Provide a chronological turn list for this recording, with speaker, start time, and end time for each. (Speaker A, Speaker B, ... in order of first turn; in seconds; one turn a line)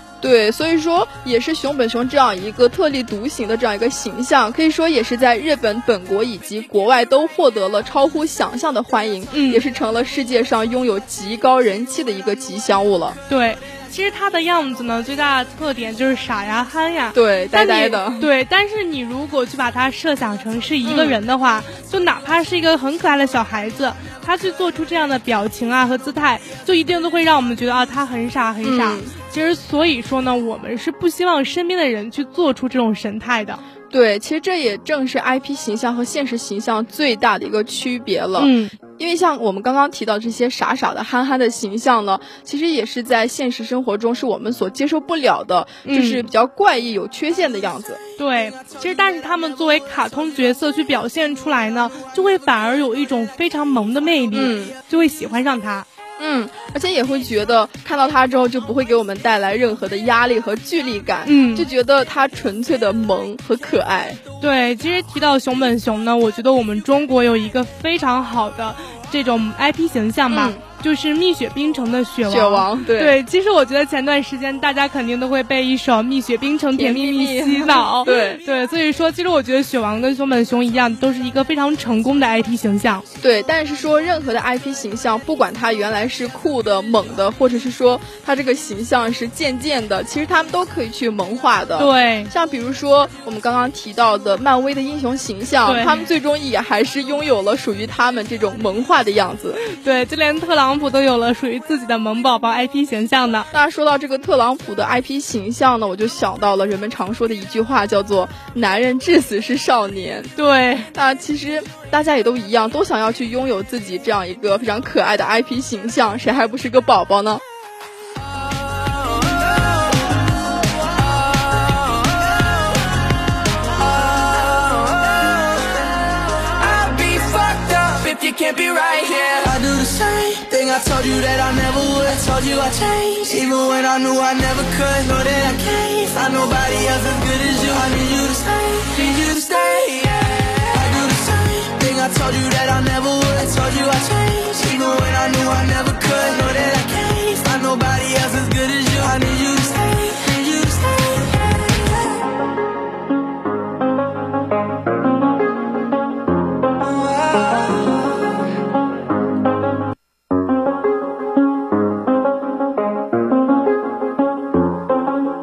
Speaker A: 0.2-13.2
Speaker B: 9.3-9.6
Speaker B: 13.3-33.6
Speaker A: 17.1-18.3
Speaker A: 20.8-21.2
Speaker A: 28.6-29.1
Speaker A: 33.9-48.0
Speaker B: 38.4-38.8
Speaker B: 45.9-46.3
Speaker B: 48.2-55.9
Speaker A: 54.3-54.8
Speaker A: 56.2-64.2
Speaker B: 61.2-61.7
Speaker B: 64.4-83.0
Speaker A: 70.3-70.6
Speaker A: 72.3-73.2
Speaker A: 76.7-78.4
Speaker A: 83.2-99.6
Speaker B: 91.8-92.3
Speaker B: 95.7-96.1
Speaker B: 99.6-103.5
Speaker A: 103.5-110.3
Speaker B: 110.4-110.9
Speaker A: 110.9-117.4
Speaker C: 119.0-119.7
Speaker C: 121.1-122.8
Speaker C: 123.7-151.6
Speaker C: 156.9-157.9